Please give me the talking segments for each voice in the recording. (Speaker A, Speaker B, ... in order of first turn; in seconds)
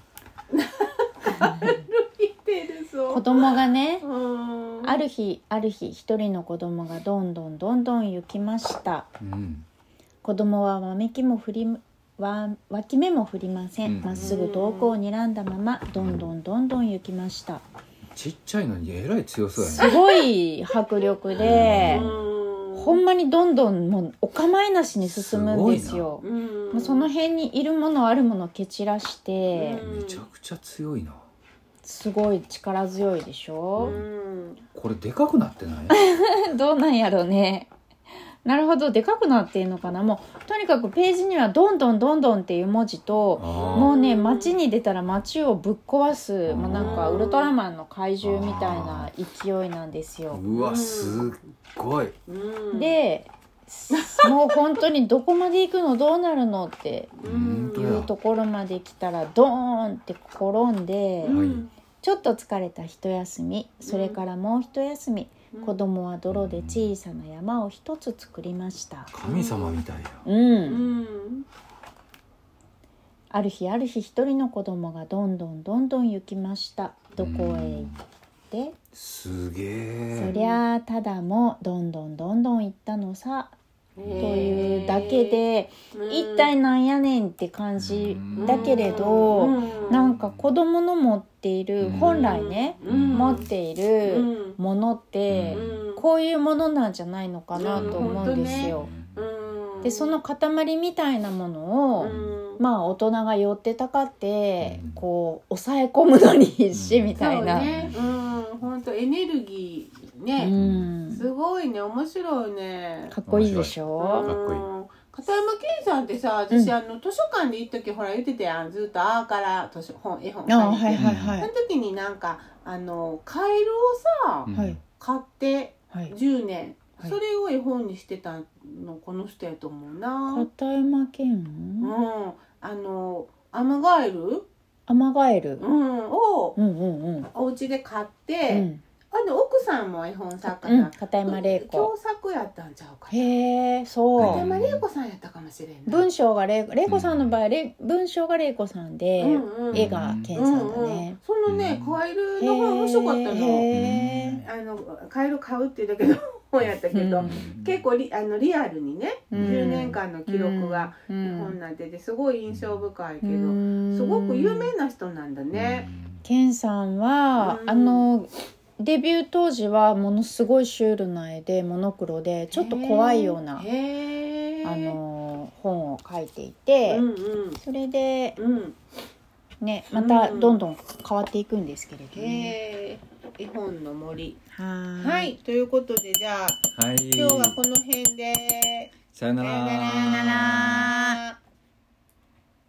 Speaker A: 0.5-5.0, 14.2-14.9, 19.8-20.2, 21.4-23.0, 26.2-27.1, 29.5-30.2, 33.8-34.6, 43.4-44.5, 46.7-47.5, 50.5-51.4, 52.3-53.0, 53.9-54.8, 57.2-57.8, 61.2-61.7, 63.8-64.2, 65.5-65.8, 69.2-69.8, 70.7-71.5, 80.3-80.6, 84.0-85.4, 85.9-86.5, 88.3-90.1, 91.9-93.5, 94.0-94.6, 95.5-96.0, 97.5-100.2, 102.0-102.6, 107.2-110.5, 111.1-113.1, 114.0-130.5, 131.8-134.5, 135.6-136.6, 137.3-143.3, 144.2-146.1, 149.2-153.8, 154.4-165.9, 167.4-168.1, 172.5-175.0, 176.9-177.6, 178.4-178.8, 179.9-180.6, 182.1-184.4, 185.0-191.3
Speaker B: 1.3-1.8, 3.1-4.1, 4.8-9.1, 10.2-17.6, 19.6-22.1, 22.7-29.8, 31.8-34.0, 35.9-37.7, 38.4-50.4, 52.7-57.1, 57.7-61.4, 62.0-69.2, 70.2-70.8, 73.3-77.9, 78.5-78.8, 80.1-83.5, 84.2-98.9, 99.8-107.7, 110.4-111.2, 113.1-114.3, 120.5-121.5, 124.5-124.8, 130.3-131.9, 134.9-135.6, 136.6-137.3, 138.5-138.8, 140.4-141.9, 143.1-144.4, 145.9-151.2, 152.4-154.4, 156.9-157.3, 159.3-161.5, 163.2-164.7, 166.2-173.7, 174.6-177.0, 177.6-178.4, 179.6-182.6, 184.5-185.3, 190.0-191.2
Speaker C: 9.2-9.7, 13.8-14.4, 16.0-16.3, 18.1-19.9, 21.4-22.2, 25.0-26.1, 29.8-31.2, 33.8-34.0, 34.7-36.0, 43.4-43.9, 46.5-47.3, 48.2-49.1, 50.3-52.1, 57.2-58.1, 61.3-61.7, 66.3-66.9, 69.1-70.2, 77.2-78.0, 78.9-80.3, 84.0-85.0, 87.8-90.5, 91.8-92.2, 92.8-93.5, 95.3-95.8, 97.7-99.2, 102.1-102.4, 104.6-105.0, 106.7-108.3, 110.5-110.9, 113.3-114.7, 120.9-121.4, 124.4-124.8, 144.2-144.8, 146.9-147.3, 149.7-150.4, 151.5-152.0, 153.7-154.5, 157.2-157.8, 159.3-159.8, 162.5-162.8, 165.5-166.2, 186.7-187.6, 189.1-190.9